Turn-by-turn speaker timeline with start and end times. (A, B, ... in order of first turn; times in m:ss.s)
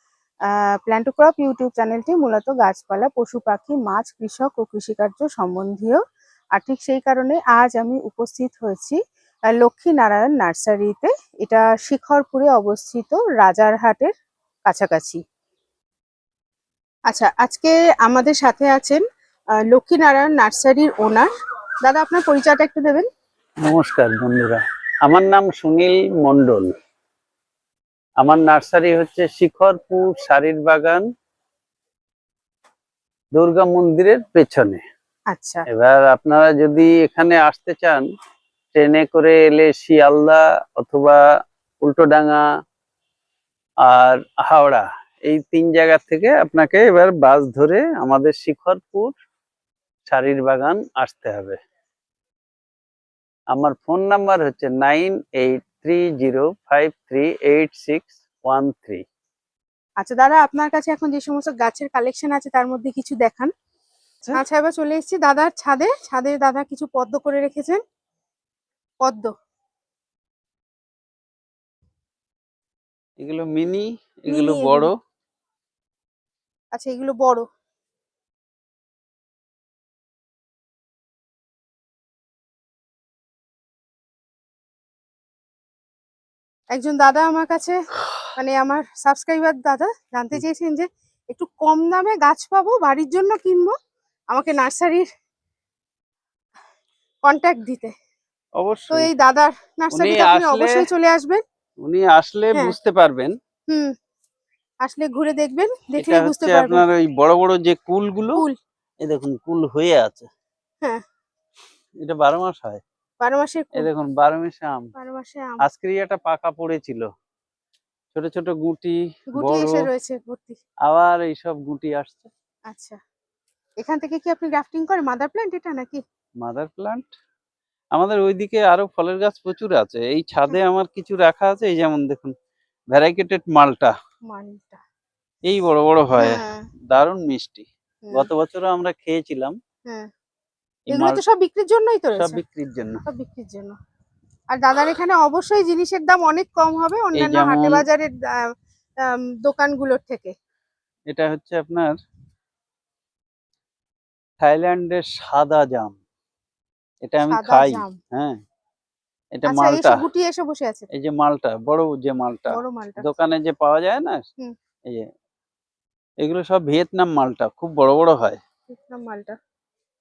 0:00.8-0:06.0 A
0:06.5-0:09.0 A
0:09.5-0:14.1 A
0:14.6-0:15.2 A
0:17.1-0:19.0 A
0:19.7-0:21.3 A
0:21.8-0:23.1 A
0:23.6-0:26.7 B
0:28.2-0:31.0 B
0:33.3-0:34.8 B
0:35.3-0:35.6 A
0:35.7-0:38.1 B
0:38.7-0:41.2 B
0:41.8-0:42.4 B
0:43.8-0:49.2 B
0:50.1-0:51.6 B
0:53.5-0:59.0 B
1:00.0-1:03.5 A
1:04.3-1:07.8 A
1:09.0-1:09.3 A
1:13.2-1:14.9 B
1:14.3-1:14.9 A
1:16.7-1:17.4 A
1:26.7-1:27.7 A
1:28.3-1:33.7 A
1:34.3-1:35.1 A
1:37.2-1:37.9 A
1:38.6-1:39.1 B
1:38.9-1:41.4 A
1:39.9-1:40.9 B
1:41.8-1:43.3 B
1:44.8-1:46.8 A
1:46.0-1:48.4 B
1:49.0-1:50.3 B
1:52.0-1:52.8 B
1:53.2-1:53.9 A
1:53.8-1:54.9 B
1:54.9-1:55.6 A
1:55.6-1:57.1 B
1:58.1-1:59.9 B
1:59.3-2:00.6 A
2:00.8-2:02.3 B
2:02.7-2:03.0 A
2:03.8-2:06.0 A
2:06.4-2:07.1 B
2:07.9-2:12.3 B
2:12.9-2:13.9 B
2:14.3-2:14.8 A
2:15.5-2:19.5 B
2:16.2-2:16.6 A
2:20.9-2:21.2 B
2:20.9-2:22.4 A
2:22.2-2:23.0 B
2:23.0-2:23.7 A
2:24.5-2:28.5 A
2:27.2-2:27.8 B
2:29.0-2:30.3 A
2:31.1-2:31.9 B
2:34.4-2:36.0 B
2:37.0-2:38.4 B
2:37.3-2:38.0 A
2:39.4-2:40.0 B
2:39.5-2:40.9 A
2:40.9-2:44.2 B
2:42.5-2:43.1 A
2:46.2-2:48.4 B
2:48.7-2:49.4 A